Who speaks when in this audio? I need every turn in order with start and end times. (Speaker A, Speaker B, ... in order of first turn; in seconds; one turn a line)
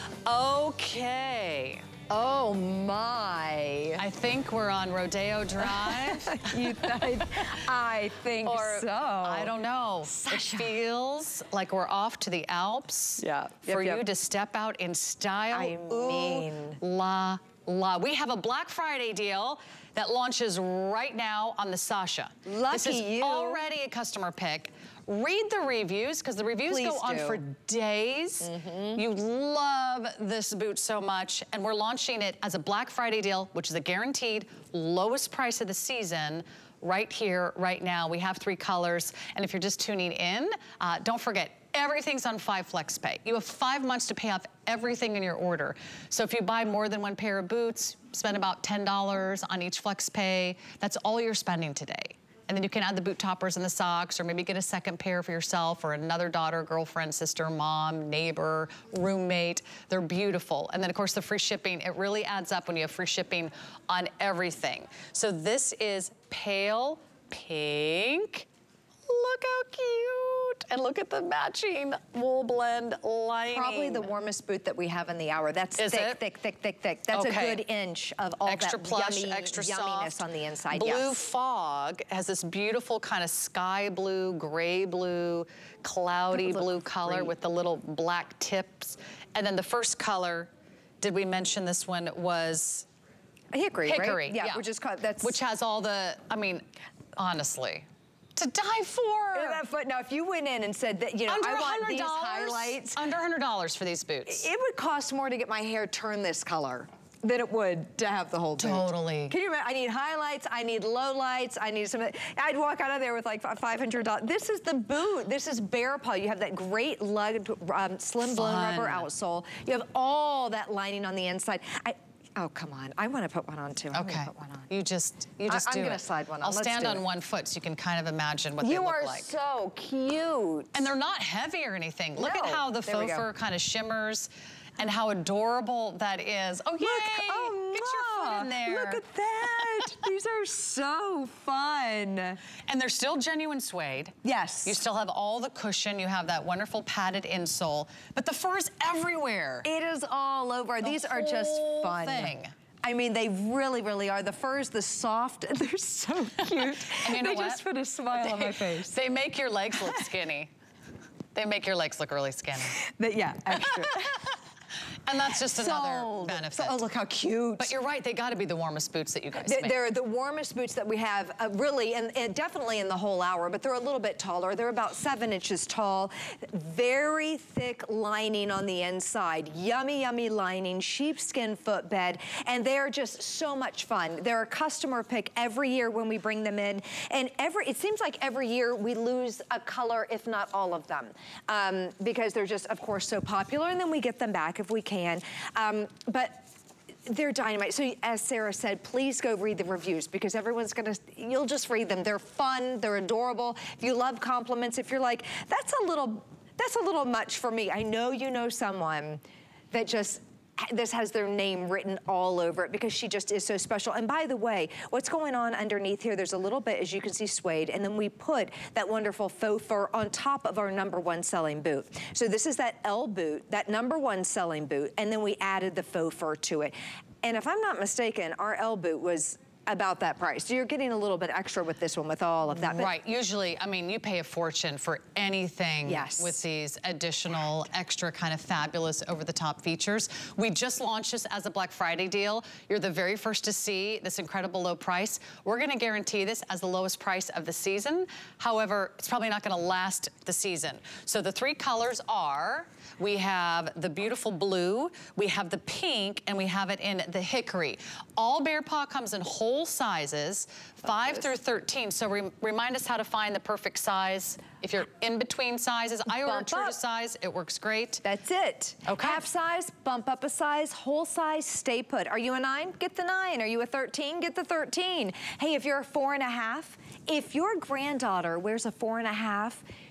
Speaker A: 0.2-1.8
Speaker B: 2.1-4.0
Speaker A: 4.0-7.5
Speaker B: 5.6-9.5
Speaker A: 8.4-68.5
Speaker B: 10.1-10.7
Speaker B: 13.2-14.0
Speaker B: 15.5-16.8
Speaker B: 22.4-23.6
Speaker B: 26.7-27.4
Speaker B: 28.4-29.0
Speaker A: 69.1-74.1
Speaker B: 73.5-81.2
Speaker A: 75.8-76.2
Speaker A: 77.1-77.6
Speaker A: 78.5-92.9
Speaker B: 86.3-87.3
Speaker B: 93.5-95.4
Speaker A: 93.9-94.6
Speaker A: 95.2-99.6
Speaker B: 99.3-103.0
Speaker A: 101.3-104.5
Speaker B: 104.3-124.7
Speaker A: 108.6-109.3
Speaker A: 118.2-119.1
Speaker A: 123.9-129.3
Speaker B: 125.4-127.0
Speaker B: 128.6-130.9
Speaker A: 130.7-139.0
Speaker B: 132.2-133.3
Speaker B: 136.8-142.4
Speaker A: 139.6-139.9
Speaker A: 142.7-149.7
Speaker B: 144.2-144.8
Speaker B: 149.6-158.9
Speaker A: 150.8-152.5
Speaker A: 156.4-157.6
Speaker A: 158.1-160.5
Speaker B: 159.8-160.1
Speaker A: 161.3-162.8
Speaker B: 162.8-164.2
Speaker A: 163.6-164.3
Speaker A: 165.1-166.8
Speaker B: 165.5-167.7
Speaker A: 167.6-169.8
Speaker B: 169.4-196.4
Speaker B: 197.1-209.2
Speaker B: 209.7-232.9
Speaker A: 232.5-268.0
Speaker B: 235.9-236.4
Speaker B: 260.8-261.2
Speaker B: 266.1-266.8
Speaker B: 268.0-279.6
Speaker A: 268.8-269.2